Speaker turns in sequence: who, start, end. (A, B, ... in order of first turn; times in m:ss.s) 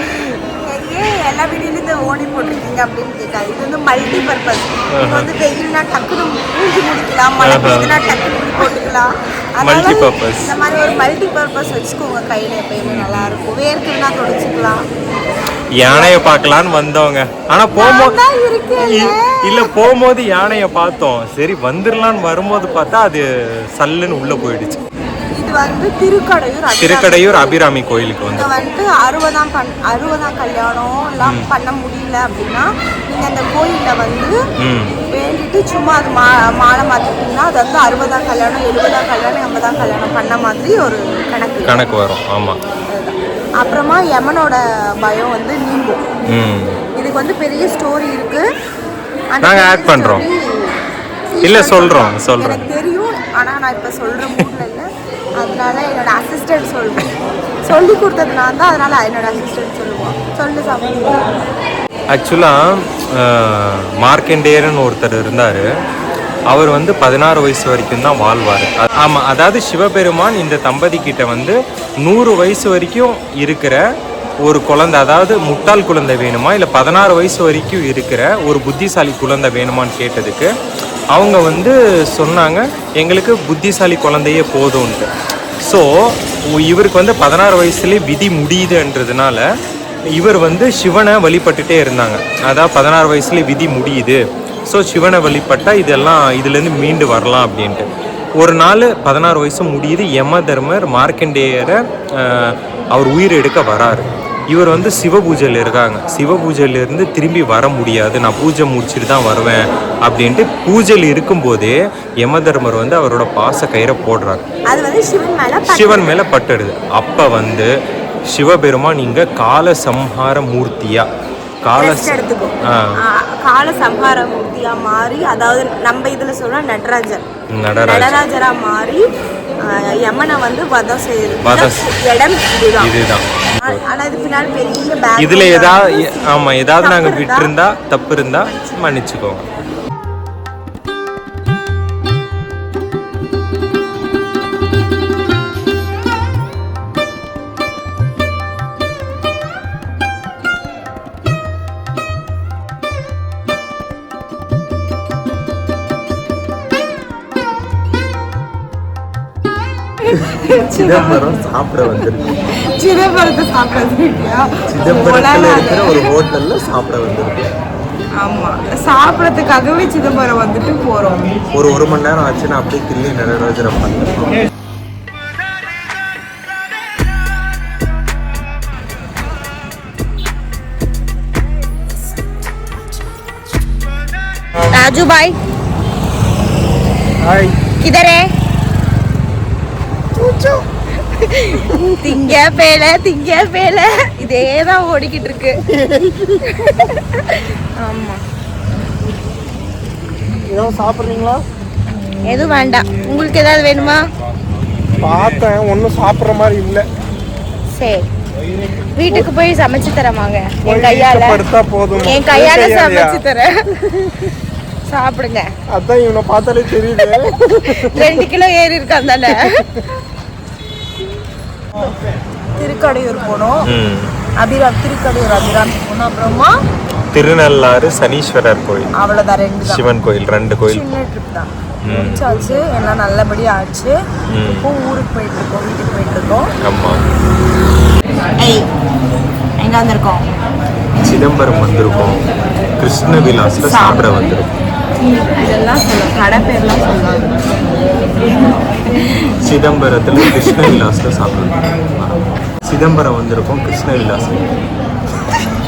0:00.6-0:14.8 A
0:05.0-0:05.3 B
0:07.4-0:07.9 B
0:09.6-0:10.5 B
0:12.8-0:13.4 B
0:15.8-0:18.2 B
0:15.8-0:16.1 A
0:17.8-0:19.7 A
0:18.8-0:23.2 B
0:23.8-0:24.8 B
0:25.4-0:27.6 A
0:26.8-0:28.7 B
0:28.3-0:34.3 A
0:31.2-0:31.5 B
0:34.6-0:35.0 B
0:35.1-0:41.8 A
0:41.6-0:42.6 B
0:42.9-0:46.0 A
0:46.3-0:46.8 B
0:47.0-0:48.4 A
0:49.4-0:50.7 A
0:49.4-0:50.2 B
0:51.3-0:54.9 A
0:51.4-0:52.7 B
0:55.4-0:57.1 A
0:57.6-1:01.1 A
1:02.1-1:05.6 B
1:06.5-1:13.8 B
1:14.4-1:20.5 B
1:21.1-1:25.1 B
1:26.5-1:29.4 B
1:30.2-1:37.9 B
1:38.4-1:54.4 B
1:54.7-1:56.2 A
1:55.6-1:57.7 B
1:58.3-2:01.1 B
2:01.6-2:02.9 B
2:01.8-2:07.2 A
2:07.5-2:08.2 B
2:07.8-2:09.0 A
2:09.7-2:12.9 A
2:11.4-2:11.9 B
2:12.8-2:13.8 B
2:13.6-2:17.5 A
2:15.2-2:19.4 B
2:18.5-2:19.0 A
2:40.2-2:41.3 A
2:40.4-2:42.4 B
2:42.7-2:46.1 A
2:44.7-2:47.4 B
2:48.2-2:51.2 A
2:51.5-2:54.4 B
3:04.7-3:05.4 A
3:07.2-3:07.6 C
3:07.8-3:08.3 A
3:10.2-3:10.6 C
3:11.0-3:15.6 A
3:11.9-3:12.2 C
3:15.8-3:16.4 C
3:16.4-3:18.2 A
3:20.5-3:21.4 C
3:22.2-3:24.0 A
3:25.0-3:26.9 C
3:27.7-3:28.1 A
3:29.0-3:31.4 A
3:30.6-3:33.2 C
3:32.0-3:34.2 A
3:34.9-3:35.5 A
3:35.7-3:38.2 C
3:37.0-3:39.6 A
3:39.4-3:39.8 C
3:42.6-3:43.6 A
3:43.7-3:44.1 B
3:44.4-3:46.5 A
3:47.1-3:48.9 B
3:49.0-3:49.8 A
3:49.6-3:50.8 B
3:50.6-3:54.0 A
3:51.9-3:52.2 B
3:54.3-3:54.7 B
3:54.6-3:56.5 A
3:56.6-3:57.0 B
3:58.4-3:58.7 A
3:59.6-4:00.3 A
4:01.0-4:02.2 B
4:02.8-4:04.5 B
4:03.6-4:04.1 A
4:05.0-4:07.3 A
4:09.4-4:14.5 B
4:10.2-4:10.7 A